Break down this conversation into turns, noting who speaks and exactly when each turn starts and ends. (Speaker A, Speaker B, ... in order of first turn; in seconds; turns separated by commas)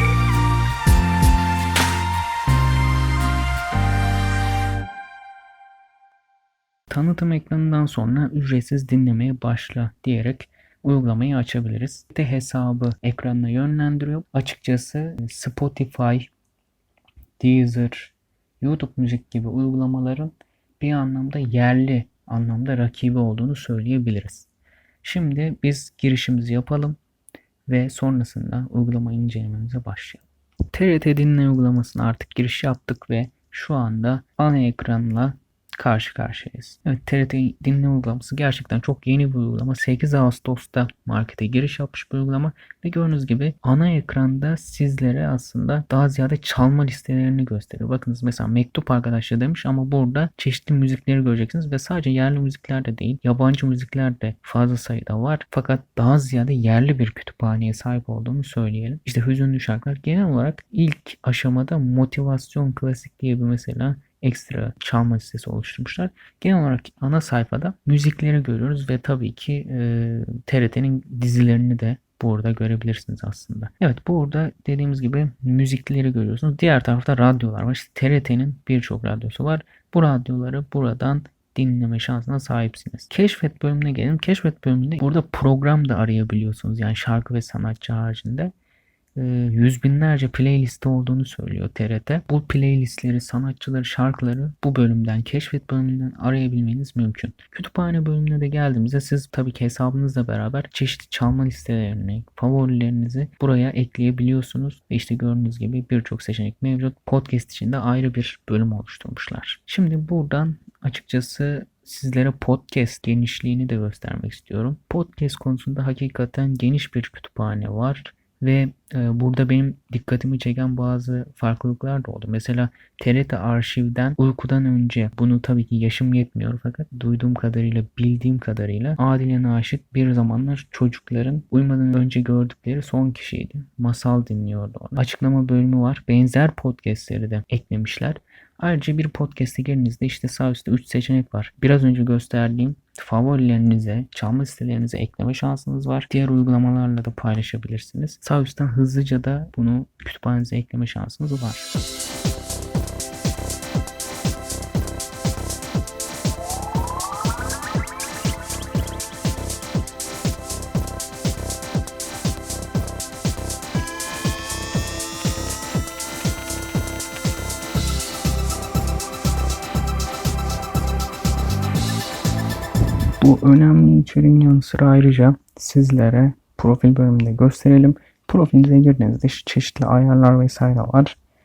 Speaker A: 6.9-16.3, Speaker A: 17.4-24.5, Speaker A: 25.0-27.0, Speaker A: 27.7-88.5, Speaker A: 89.2-151.7, Speaker A: 173.2-181.2